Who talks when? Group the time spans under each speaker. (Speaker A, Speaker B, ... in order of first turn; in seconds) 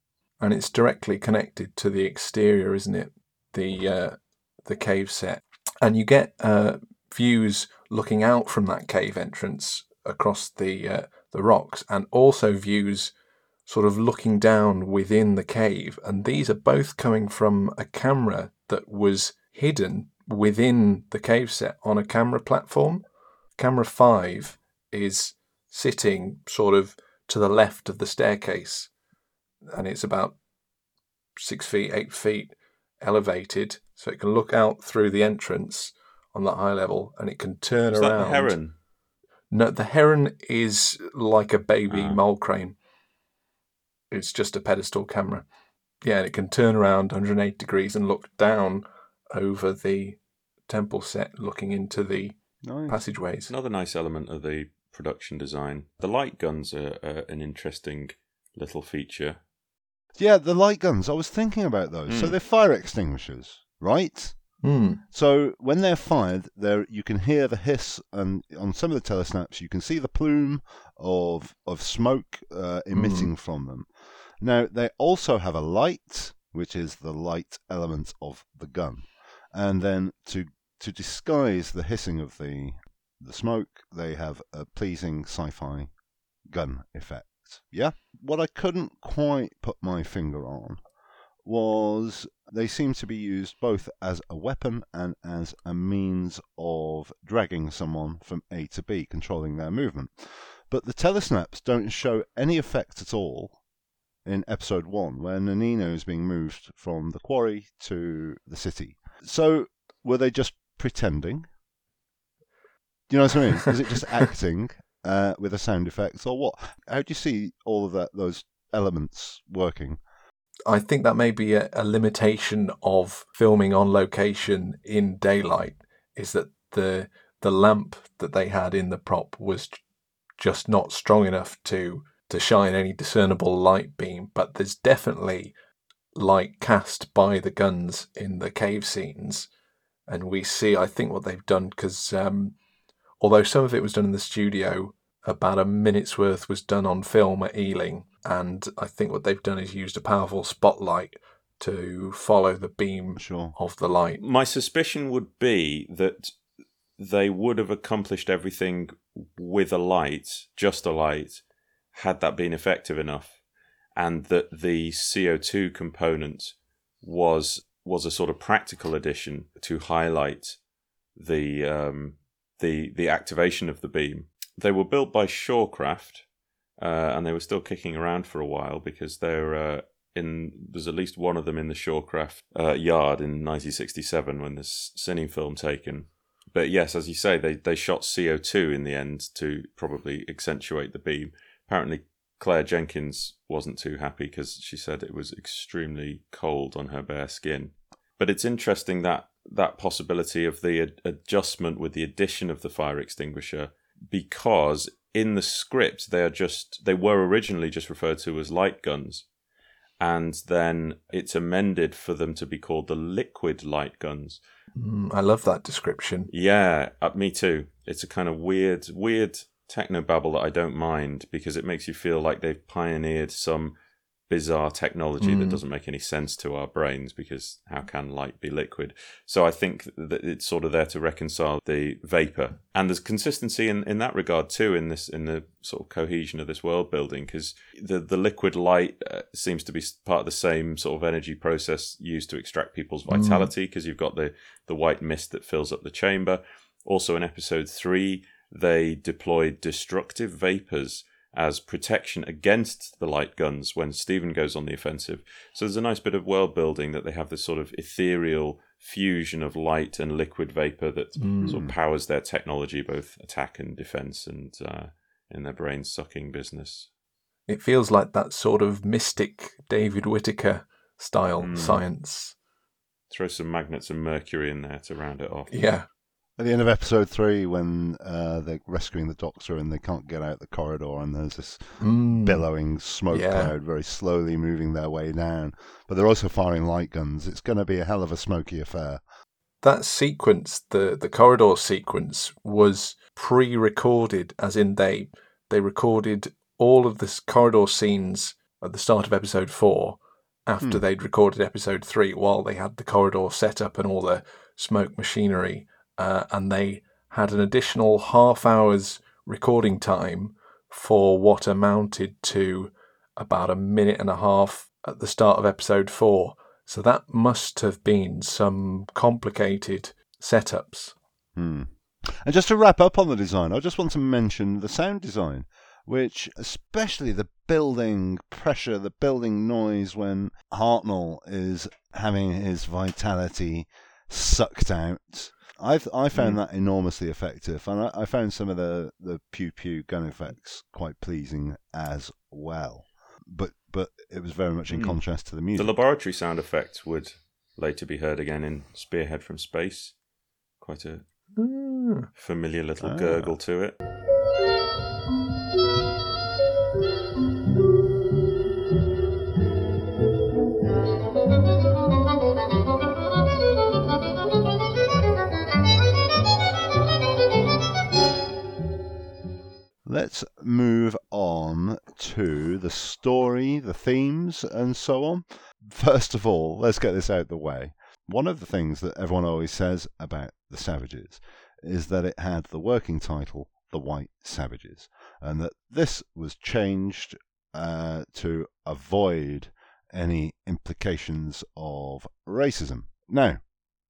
Speaker A: 0.4-13.1, 13.7-23.0, 23.6-28.9, 29.7-30.4, 31.4-38.5, 39.5-42.8, 44.1-45.5, 46.0-52.4, 52.9-53.5, 64.6-65.0, 72.9-73.3, 120.7-129.8, 130.4-135.5, 136.1-139.5, 140.1-142.5, 143.2-154.2, 214.8-216.3, 225.2-225.6, 243.1-243.5, 261.2-261.6, 267.5-272.4, 275.5-275.9, 281.8-282.4, 283.1-283.5, 289.6-320.9, 351.4-352.1
Speaker B: 37.9-38.7, 41.9-42.2, 53.5-59.4, 62.1-62.4, 154.2-156.3, 157.0-161.4, 161.9-163.3, 163.9-170.6, 171.2-176.2, 176.8-209.2, 210.0-214.4, 216.3-223.7, 224.3-266.9, 271.4-271.8, 273.1-275.5, 344.7-345.0, 345.5-349.9, 350.6-351.0, 352.2-353.8
Speaker C: 52.6-53.0, 60.2-64.4, 65.1-73.9, 74.4-85.9, 86.5-90.8, 91.4-103.6, 104.2-111.5, 113.1-120.0, 153.2-153.5, 261.4-261.7, 276.4-289.0, 321.4-345.7, 352.8-353.3, 369.8-393.4